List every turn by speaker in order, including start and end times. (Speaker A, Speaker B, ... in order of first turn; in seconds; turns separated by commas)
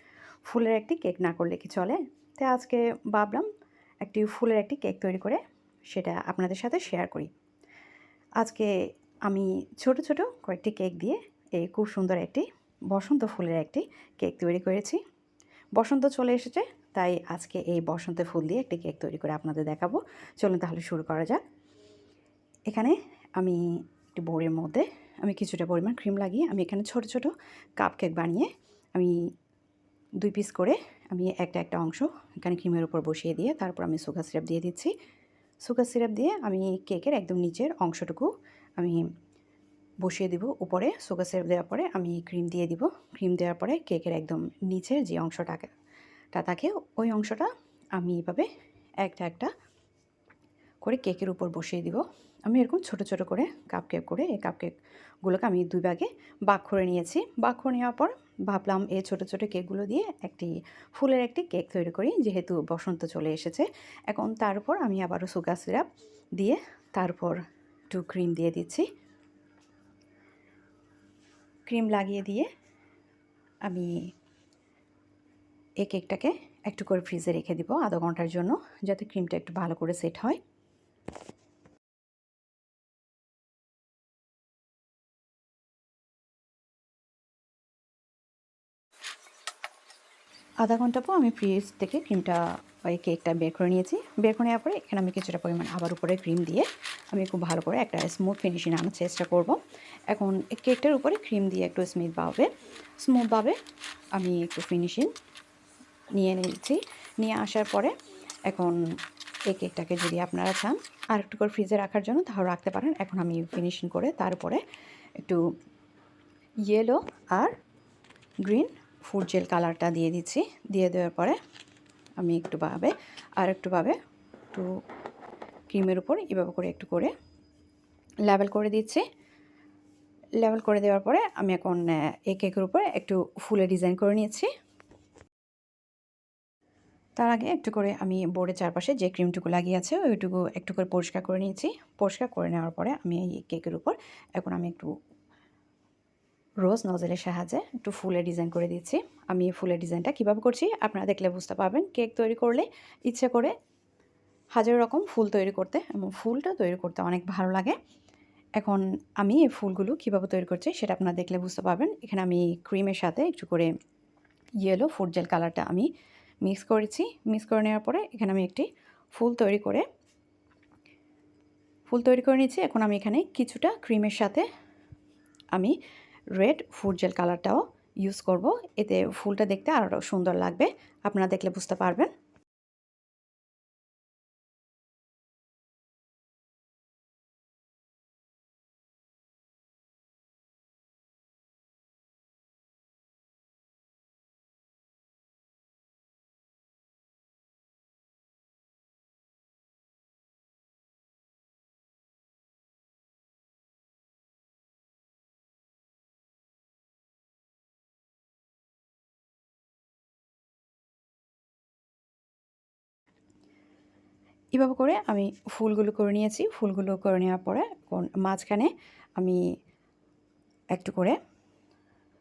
Speaker A: 0.5-3.5, Speaker A: 4.0-7.3, Speaker A: 8.4-8.7, Speaker A: 9.3-15.0, Speaker A: 15.8-21.4, Speaker A: 22.7-23.6, Speaker A: 24.1-29.2, Speaker A: 30.2-34.9, Speaker A: 35.6-39.0, Speaker A: 40.0-45.7, Speaker A: 46.3-48.5, Speaker A: 49.0-49.5, Speaker A: 50.8-65.9, Speaker A: 66.4-67.4, Speaker A: 67.9-68.9, Speaker A: 71.7-72.5, Speaker A: 75.8-80.4, Speaker A: 90.6-99.6, Speaker A: 100.1-102.5, Speaker A: 103.0-103.6, Speaker A: 104.2-105.1, Speaker A: 106.2-108.0, Speaker A: 108.5-108.8, Speaker A: 109.5-114.6, Speaker A: 116.7-117.5, Speaker A: 118.4-121.4, Speaker A: 122.2-124.0, Speaker A: 125.7-127.1, Speaker A: 128.2-129.1, Speaker A: 130.4-134.5, Speaker A: 137.2-144.9, Speaker A: 146.6-153.6, Speaker A: 154.6-157.8, Speaker A: 158.6-163.7, Speaker A: 164.6-165.9, Speaker A: 166.4-169.9, Speaker A: 171.9-174.5, Speaker A: 176.4-182.1, Speaker A: 214.6-219.4, Speaker A: 220.8-221.2